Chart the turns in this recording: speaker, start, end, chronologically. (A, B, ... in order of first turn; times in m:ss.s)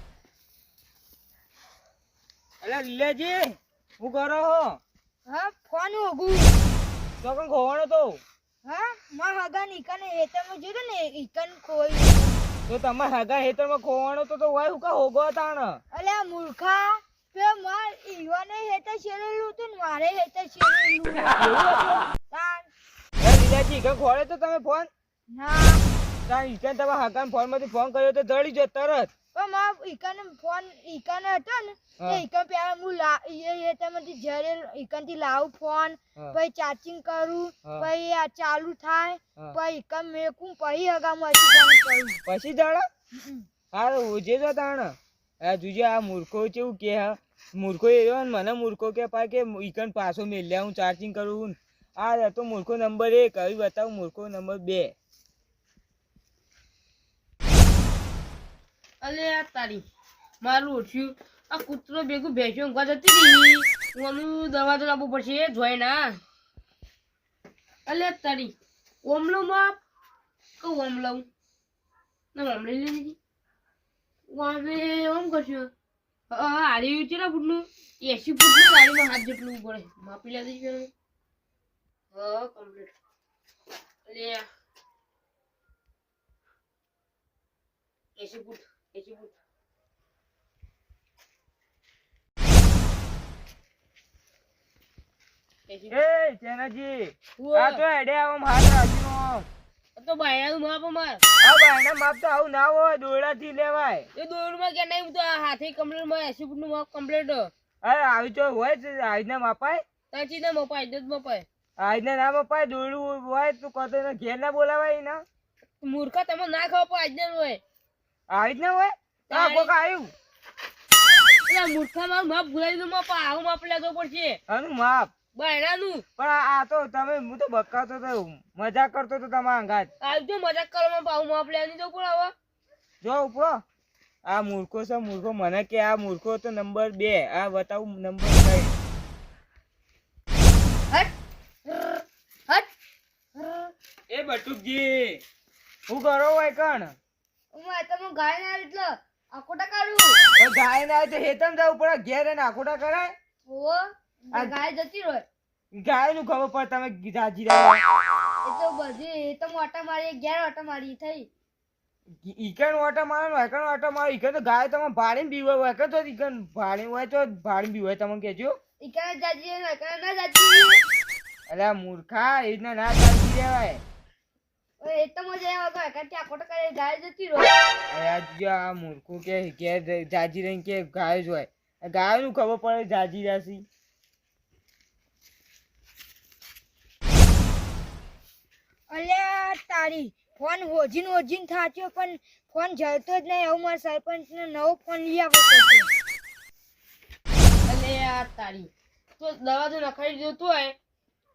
0:02.6-0:04.8 A
0:05.3-0:06.6 B
0:07.2-0:08.2 A
0:08.6-0:12.4 B
0:12.7-0:15.8 A
0:15.9-0:21.3 B
0:21.4-0:22.1 A
0:22.3-0:22.7 B
0:23.2-0:24.9 A
0:25.3-0:25.8 B
0:26.3-0:29.1 A
0:29.3-0:42.2 B
0:42.3-0:42.9 A
0:43.7-0:54.9 A
0:59.0-0:59.8 C
1:00.4-1:06.2 C
1:07.9-1:09.8 C
1:10.6-1:11.3 C
1:12.3-1:13.2 C
1:14.3-1:15.7 C
1:16.3-1:20.9 C
1:22.1-1:23.0 C
1:24.1-1:24.4 C
1:28.2-1:29.4 C
1:35.7-1:36.0 C
1:35.9-1:39.5 A
1:37.4-1:37.8 C
1:40.0-1:41.2 C
1:41.4-1:44.1 A
1:44.2-1:47.5 C
1:47.8-1:49.8 A
1:50.1-1:51.5 C
1:51.8-1:55.2 A
1:55.8-1:57.6 C
1:58.3-2:00.1 A
1:59.3-1:59.7 C
2:01.5-2:04.4 C
2:04.5-2:05.1 A
2:05.4-2:06.1 C
2:06.2-2:09.9 A
2:10.0-2:12.3 C
2:13.0-2:13.6 A
2:14.3-2:18.8 A
2:21.7-2:22.7 B
2:23.4-2:23.7 B
2:24.1-2:25.2 A
2:25.9-2:27.0 A
2:27.5-2:30.2 B
2:30.4-2:33.2 A
2:33.5-2:35.2 B
2:35.8-2:37.8 A
2:38.4-2:41.3 B
2:42.2-2:48.6 A
2:48.8-2:50.8 B
2:51.5-2:53.8 A
2:54.8-2:57.6 B
2:57.9-3:03.6 A
3:08.9-3:15.9 B
3:17.6-3:20.8 C